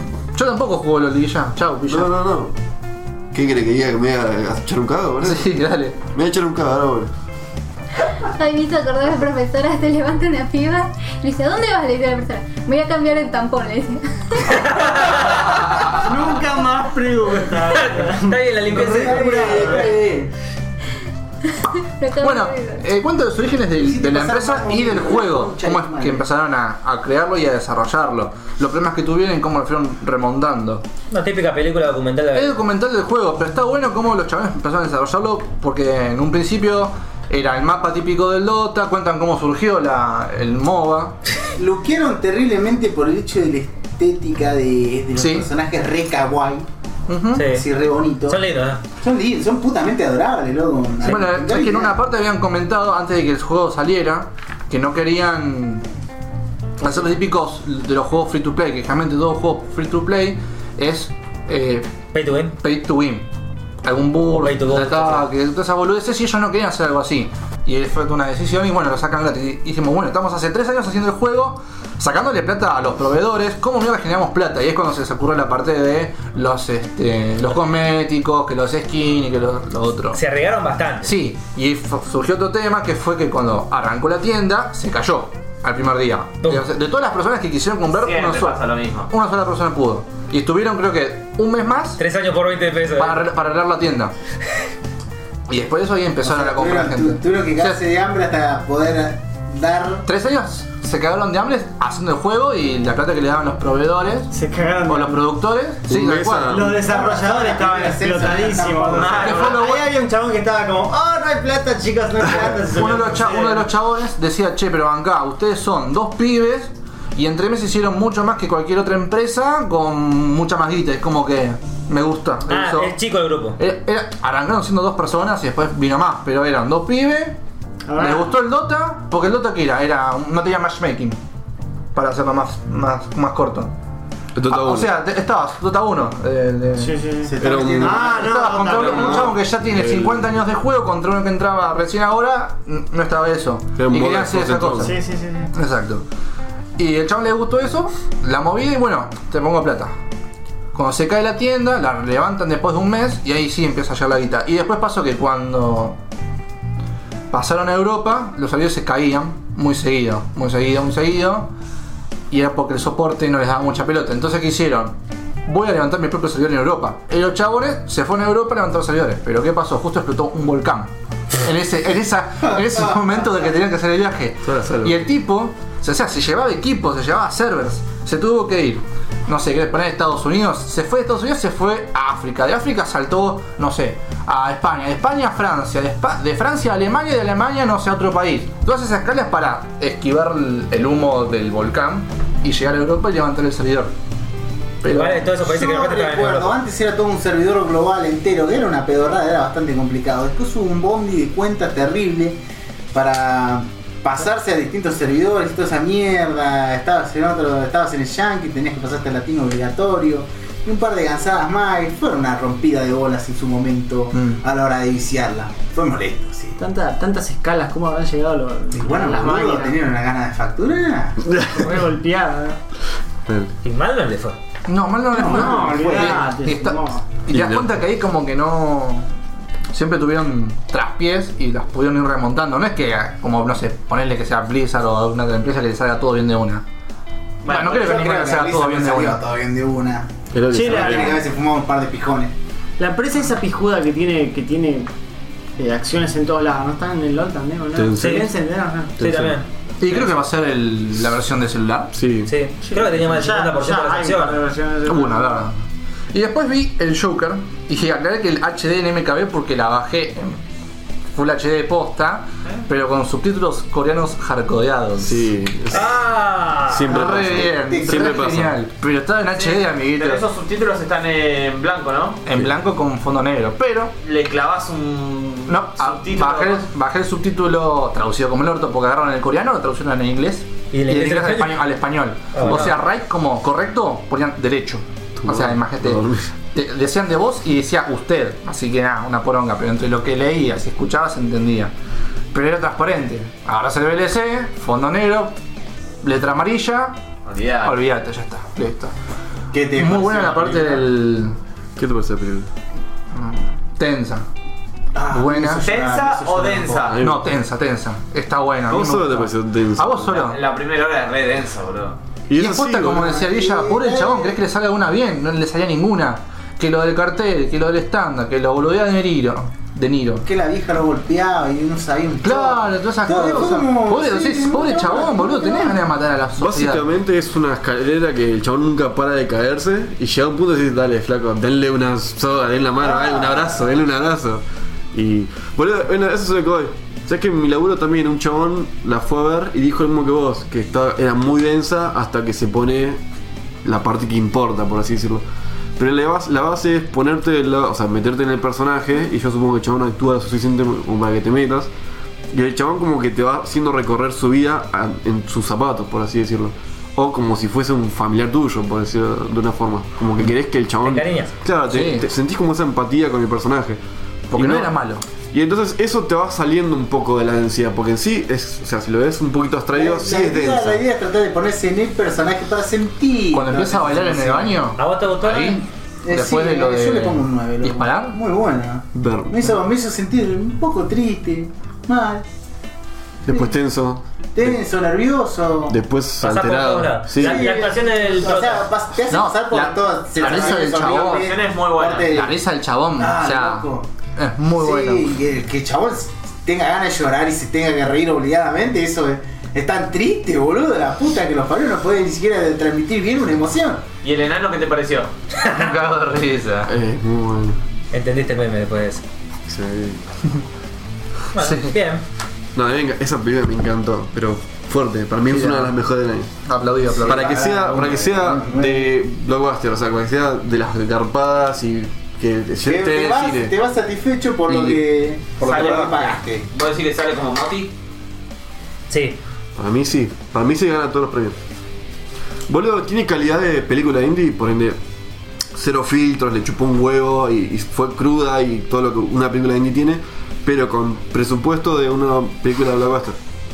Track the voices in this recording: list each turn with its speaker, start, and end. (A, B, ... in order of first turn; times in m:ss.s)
0:00.3-0:02.1 A
0:01.9-0:02.5 B
0:03.3-0:05.5 B
0:05.2-0:06.0 A
0:06.1-0:07.1 B
0:08.2-0:15.0 C
0:14.5-0:15.4 D
0:15.8-0:20.0 E
0:17.7-0:19.7 D
0:18.7-0:20.3 F
0:21.6-0:22.8 C
0:22.2-0:30.8 A
0:23.8-0:26.2 F
0:31.1-0:32.6 D
0:32.3-0:41.1 A
0:41.6-0:46.6 F
0:45.2-0:45.5 A
0:47.1-0:47.5 A
0:47.3-0:47.6 D
0:47.5-0:48.4 F
0:48.3-0:48.8 D
0:49.0-0:52.0 F
0:51.0-0:55.8 A
0:56.8-1:01.9 A
1:02.1-1:02.5 D
1:02.6-1:03.3 A
1:03.8-1:20.2 A
1:04.4-1:05.2 D
1:20.1-1:21.1 D
1:21.0-1:28.6 A
1:27.9-1:29.1 G
1:29.1-1:32.0 A
1:32.0-1:33.2 D
1:33.0-1:34.1 A
1:35.5-1:37.8 A
1:36.2-1:40.0 F
1:40.0-1:44.3 A
1:44.3-1:45.2 E
1:44.9-1:46.6 A
1:45.9-1:46.8 B
1:46.5-1:53.7 E
1:46.6-1:49.5 F
1:48.9-1:49.4 G
1:49.2-1:49.8 A
1:52.7-2:03.0 A
2:02.5-2:03.6 D
2:03.6-2:07.4 A
2:07.8-2:08.4 E
2:08.0-2:11.2 A
2:11.9-2:13.7 A
2:14.4-2:14.9 B
2:14.5-2:17.0 A
2:16.8-2:19.3 E
2:17.2-2:19.3 F
2:17.4-2:18.2 B
2:18.2-2:25.0 A
2:19.7-2:20.3 B
2:23.8-2:24.9 B
2:24.8-2:25.5 E
2:25.5-2:26.0 A
2:26.8-2:29.9 A
2:30.7-2:36.0 A
2:37.3-2:41.5 A
2:42.3-2:44.9 A
2:45.4-2:50.9 A
2:51.4-3:13.9 A
2:52.4-2:53.5 F
2:54.4-2:55.0 B
3:14.8-3:15.3 A
3:14.8-3:16.5 D
3:15.4-3:22.4 F
3:22.9-3:36.6 F
3:34.1-3:34.4 A
3:36.6-3:39.8 E
3:38.7-3:41.2 F
3:41.2-3:41.7 B
3:41.5-3:42.6 E
3:43.6-3:44.4 D
3:44.7-3:49.1 A
3:45.1-3:47.1 E
3:45.2-3:46.3 F
3:47.3-3:47.7 B
3:49.7-3:56.6 A
3:57.4-3:59.2 A
3:57.5-3:57.8 G
3:57.5-4:02.3 F
4:00.3-4:01.2 B
4:00.5-4:01.2 E
4:02.8-4:04.9 E
4:05.6-4:09.0 E
4:07.7-4:08.3 B
4:08.0-4:08.3 D
4:09.0-4:09.4 B
4:09.0-4:10.0 D
4:09.8-4:11.9 A
4:11.9-4:12.3 B
4:12.2-4:14.4 D
4:12.6-4:15.5 E
4:14.8-4:15.6 A
4:16.1-4:20.4 A
4:21.1-4:25.3 A
4:25.0-4:26.0 B
4:25.7-4:26.9 G
4:26.7-4:28.6 B
4:26.9-4:30.2 A
4:27.4-4:28.2 F
4:29.4-4:32.2 G
4:32.2-4:33.9 A
4:34.0-4:36.6 G
4:35.5-4:51.7 A
4:40.7-4:41.6 D
4:42.3-4:42.8 D
4:45.2-4:46.3 B
4:52.3-4:55.3 A
4:56.0-4:57.0 A
4:57.2-4:57.8 G
4:57.6-4:58.9 A
4:59.5-5:00.9 F
4:59.8-5:01.4 A
5:01.8-5:02.5 B
5:03.1-5:04.2 A
5:04.9-5:07.0 F
5:05.1-5:05.6 A
5:05.6-5:07.0 G
5:06.9-5:07.3 B
5:07.0-5:10.4 A
5:08.7-5:10.1 B
5:10.1-5:12.0 G
5:12.3-5:13.1 B
5:12.3-5:20.2 A
5:12.8-5:14.4 F
5:20.2-5:25.8 F
5:22.2-5:26.8 A
5:26.4-5:34.4 B
5:32.8-5:33.7 F
5:34.9-5:43.0 B
5:43.6-5:45.2 B
5:45.8-5:51.7 B
5:52.3-6:03.8 B
6:00.8-6:01.3 D
6:01.7-6:02.0 A
6:04.3-6:05.0 A
6:04.3-6:04.7 B
6:05.3-6:10.8 B
6:09.7-6:14.6 F
6:13.3-6:18.2 A
6:14.8-6:15.6 D
6:16.0-6:22.2 F
6:18.9-6:19.5 B
6:23.2-6:24.6 B
6:24.3-6:25.7 F
6:25.7-6:27.6 B
6:26.2-6:28.7 D
6:27.2-6:32.4 F
6:29.1-6:31.3 A
6:30.2-6:32.2 G
6:32.1-6:35.1 A
6:33.0-6:33.9 F
6:34.5-6:43.8 F
6:44.0-6:45.1 G
6:45.4-6:46.7 A
6:46.6-6:47.6 B
6:47.9-6:49.0 D
6:49.5-6:50.0 B
6:51.3-6:52.0 D
6:51.4-6:51.7 A
6:52.6-6:56.3 B
6:55.3-6:55.7 A
6:56.4-6:57.4 A
6:57.0-6:58.9 F
6:57.0-7:03.5 B
7:02.6-7:06.4 F
7:04.5-7:04.8 A
7:05.4-7:05.9 A
7:05.4-7:07.7 G
7:08.9-7:09.2 D
7:09.6-7:11.4 B
7:12.5-7:14.8 B
7:15.5-7:23.2 B